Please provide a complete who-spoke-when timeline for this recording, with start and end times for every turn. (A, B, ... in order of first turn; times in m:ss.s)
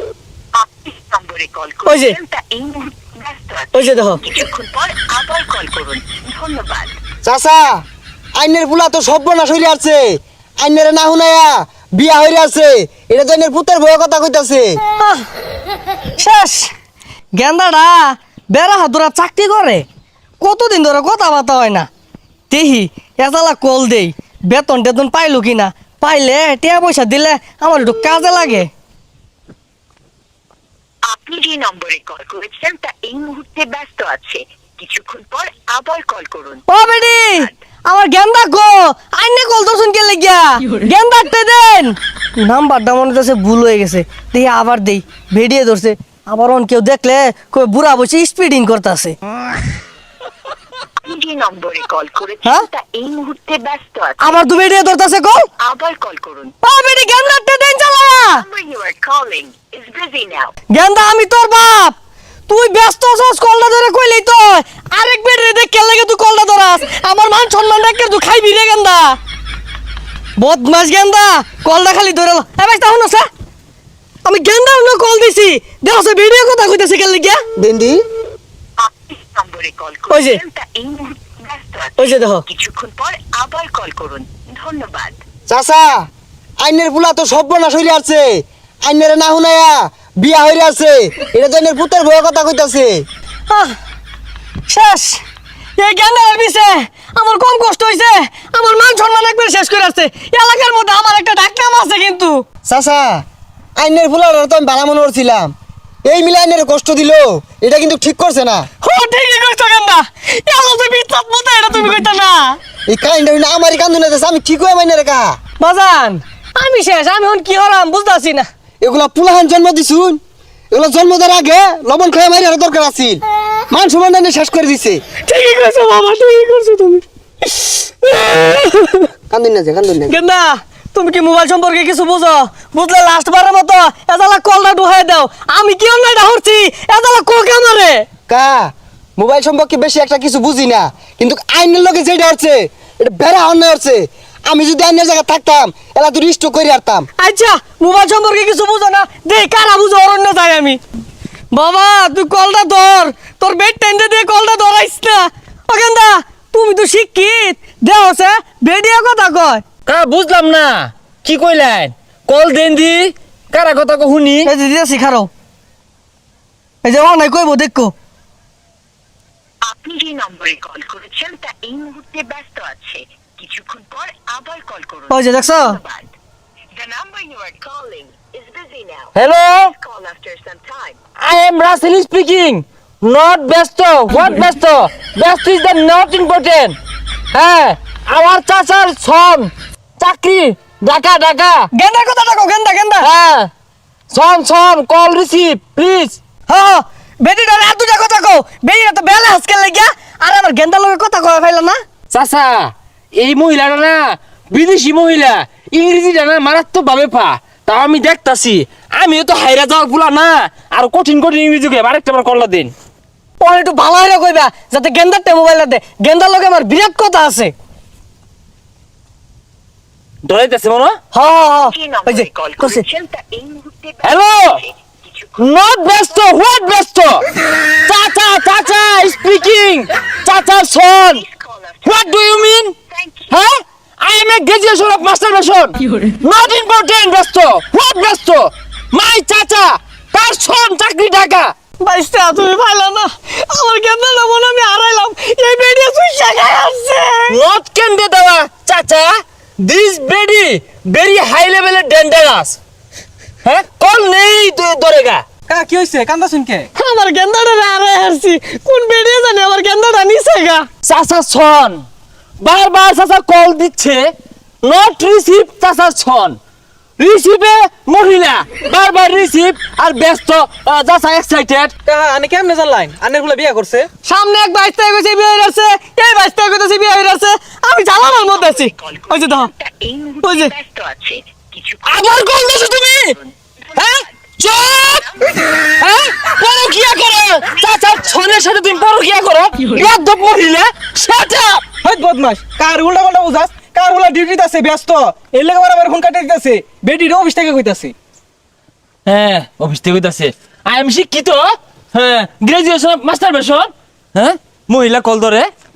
0:00.5-0:06.9 A
0:01.8-0:02.2 B
0:03.7-0:04.2 B
0:07.2-0:07.8 C
0:08.4-0:14.8 C
0:15.0-0:15.2 B
0:16.2-0:16.7 B
0:17.4-0:19.8 B
0:20.4-0:21.9 B
0:22.5-0:28.7 B
0:31.1-0:37.5 A
0:36.7-0:49.2 B
0:51.0-0:54.4 A
0:54.2-0:55.5 B
0:55.6-0:56.5 A
0:56.6-0:58.4 B
0:58.3-1:00.5 A
1:00.7-1:02.0 B
1:02.5-1:09.2 B
1:10.4-1:13.3 B
1:14.2-1:17.4 B
1:17.6-1:18.0 C
1:18.8-1:25.2 A
1:20.1-1:20.4 B
1:22.0-1:22.4 B
1:25.5-1:26.0 C
1:26.6-1:33.0 C
1:33.5-1:33.8 B
1:34.7-1:35.2 B
1:35.8-1:42.4 B
1:42.6-1:43.2 C
1:43.8-1:45.5 C
1:46.0-1:48.7 C
1:48.8-1:52.6 B
1:52.9-1:55.4 C
1:55.6-1:58.4 B
1:58.8-2:00.2 C
2:00.7-2:05.0 C
2:05.2-2:07.0 B
2:07.5-2:09.1 B
2:09.3-2:10.1 C
2:10.1-2:18.0 B
2:18.3-2:27.1 C
2:27.2-2:30.8 B
2:31.5-2:39.6 B
2:39.8-2:44.5 D
2:44.4-2:45.3 B
2:46.8-2:47.9 B
2:49.6-2:56.1 A
2:55.1-2:55.8 B
2:56.7-2:59.1 A
2:59.1-2:59.7 D
2:59.7-3:01.0 A
3:01.2-3:06.8 D
3:07.3-3:11.7 D
3:11.7-3:13.1 B
3:13.0-3:13.5 D
3:14.1-3:16.2 D
3:16.5-3:21.8 B
3:22.1-3:32.7 D
3:33.4-3:37.5 B
3:40.2-3:41.0 D
3:41.1-3:42.8 B
3:41.5-3:45.4 A
3:44.0-3:44.6 D
3:45.4-3:47.2 D
3:47.8-3:51.2 D
3:51.1-3:53.3 A
3:51.8-3:52.7 D
3:53.3-4:01.5 D
4:01.8-4:07.4 B
4:07.3-4:12.6 D
4:13.4-4:15.2 D
4:15.5-4:16.7 E
4:16.8-4:20.7 B
4:20.8-4:21.8 D
4:22.4-4:24.1 D
4:24.6-4:26.4 D
4:27.0-4:31.7 D
4:31.8-4:33.9 E
4:34.0-4:39.5 B
4:38.3-4:44.3 A
4:40.2-4:40.5 B
4:41.8-4:43.2 D
4:44.4-4:45.1 D
4:45.8-4:51.6 D
4:51.8-4:57.9 E
4:59.0-5:05.5 D